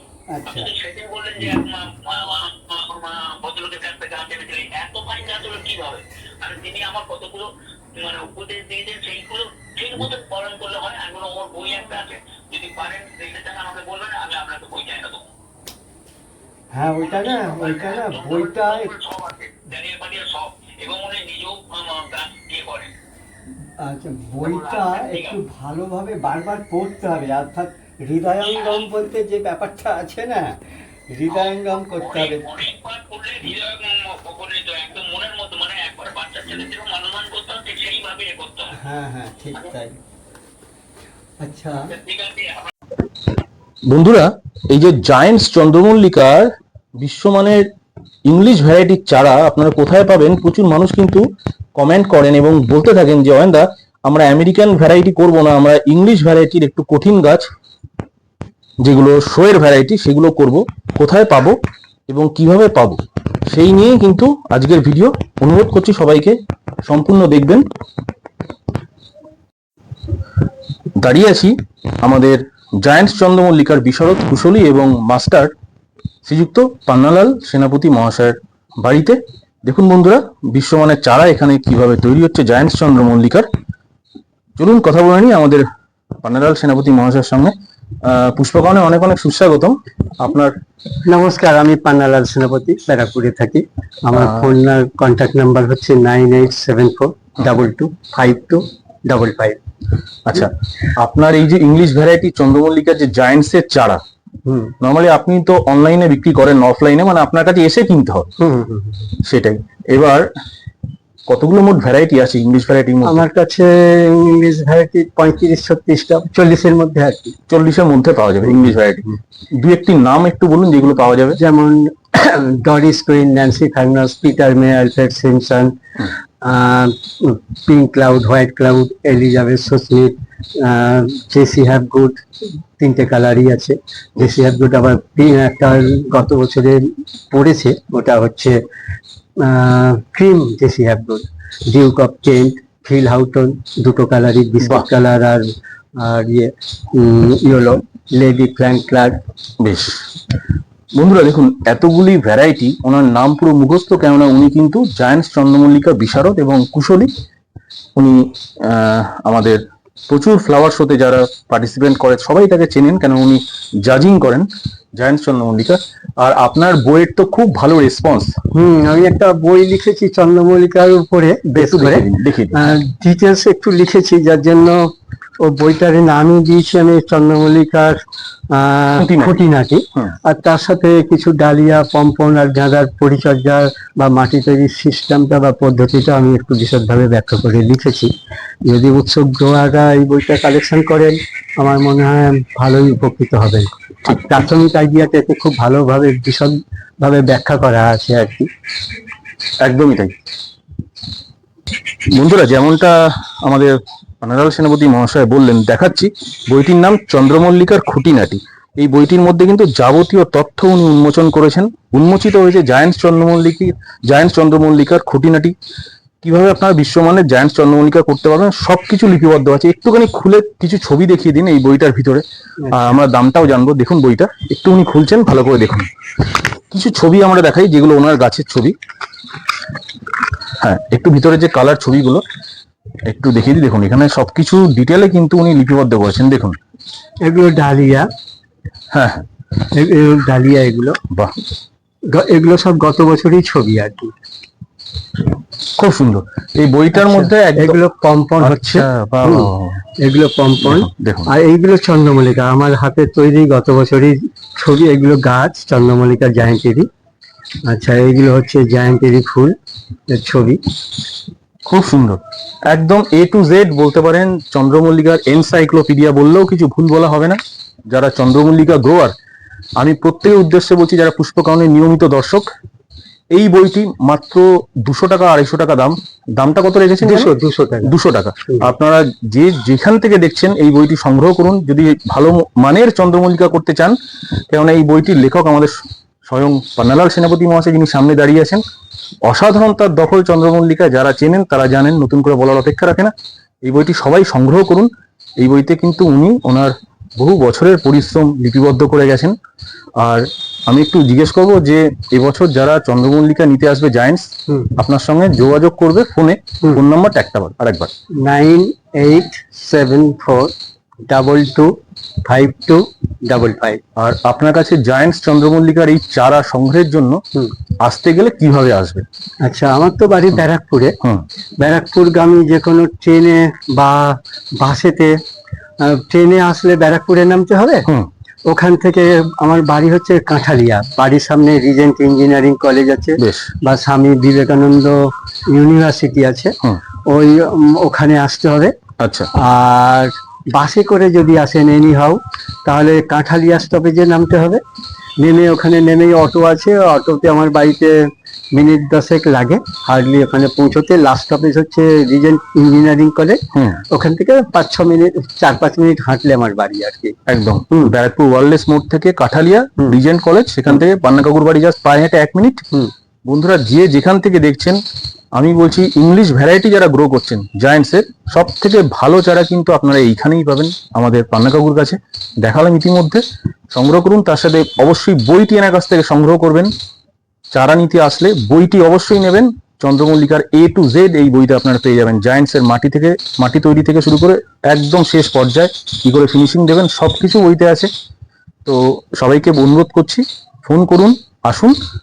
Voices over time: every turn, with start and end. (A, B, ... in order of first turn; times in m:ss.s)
0:00.3-0:00.7 A
0:00.5-0:15.3 B
0:16.7-0:18.9 A
0:17.0-0:22.9 B
0:23.8-0:32.5 A
0:24.4-0:25.4 B
0:28.4-0:28.9 B
0:31.3-0:38.8 B
0:38.7-0:40.0 A
0:41.4-0:41.9 A
0:41.9-0:42.7 B
0:43.9-0:47.7 C
0:48.3-0:51.2 C
0:51.8-0:57.5 C
0:58.8-1:01.6 C
1:02.1-1:07.6 C
1:11.0-1:15.5 C
1:16.2-1:23.5 C
1:24.6-1:25.6 C
1:26.2-1:30.5 C
1:31.0-1:39.6 A
1:34.1-1:34.5 C
1:40.3-1:44.0 C
1:44.5-1:44.8 A
1:44.8-1:48.3 C
1:48.4-1:49.1 A
1:49.2-1:50.3 C
1:51.3-1:53.2 C
1:53.0-1:57.4 A
1:57.5-2:01.4 C
2:01.4-2:05.7 A
2:06.4-2:12.2 A
2:12.8-2:18.6 A
2:19.4-2:25.5 A
2:26.0-2:29.2 A
2:29.6-2:30.1 C
2:31.0-2:37.1 C
2:38.0-2:44.5 C
2:45.0-2:48.3 C
2:48.5-2:54.8 A
2:51.6-2:52.6 C
2:55.4-2:57.9 A
2:58.5-3:08.1 A
2:59.0-2:59.4 C
3:08.6-3:18.5 A
3:19.6-3:20.2 C
3:22.1-3:35.5 C
3:36.2-3:45.9 C
3:42.6-3:43.0 A
3:46.7-3:48.8 C
3:50.6-3:52.2 C
3:53.1-3:56.6 C
3:57.2-3:58.1 A
3:58.9-3:59.3 C
3:59.7-4:01.0 A
4:01.1-4:01.4 C
4:02.1-4:04.1 A
4:05.7-4:07.8 C
4:07.0-4:16.9 A
4:08.4-4:09.8 C
4:10.6-4:11.3 C
4:17.7-4:19.6 A
4:20.1-4:20.6 A
4:21.7-4:29.2 C
4:29.8-4:32.5 C
4:33.3-4:37.3 C
4:37.0-4:38.0 A
4:37.8-4:44.0 C
4:44.5-4:45.8 C
4:46.3-4:48.6 C
4:49.2-4:59.4 C
5:00.0-5:07.9 C
5:04.5-5:04.8 A
5:08.2-5:10.5 A
5:11.1-5:11.7 A
5:12.2-5:13.8 A
5:14.0-5:17.2 C
5:17.8-5:19.0 C
5:19.4-5:21.0 A
5:21.6-5:25.2 A
5:25.8-5:27.9 A
5:28.5-5:36.6 A
5:33.2-5:33.5 C
5:37.1-5:38.7 A
5:39.0-5:39.3 C
5:39.4-5:44.6 A
5:45.2-5:48.0 A
5:48.5-5:57.2 A
5:53.5-5:53.8 C
5:57.3-6:02.6 C
6:03.3-6:04.8 C
6:05.3-6:16.7 C
6:17.5-6:27.9 C
6:28.7-6:31.8 C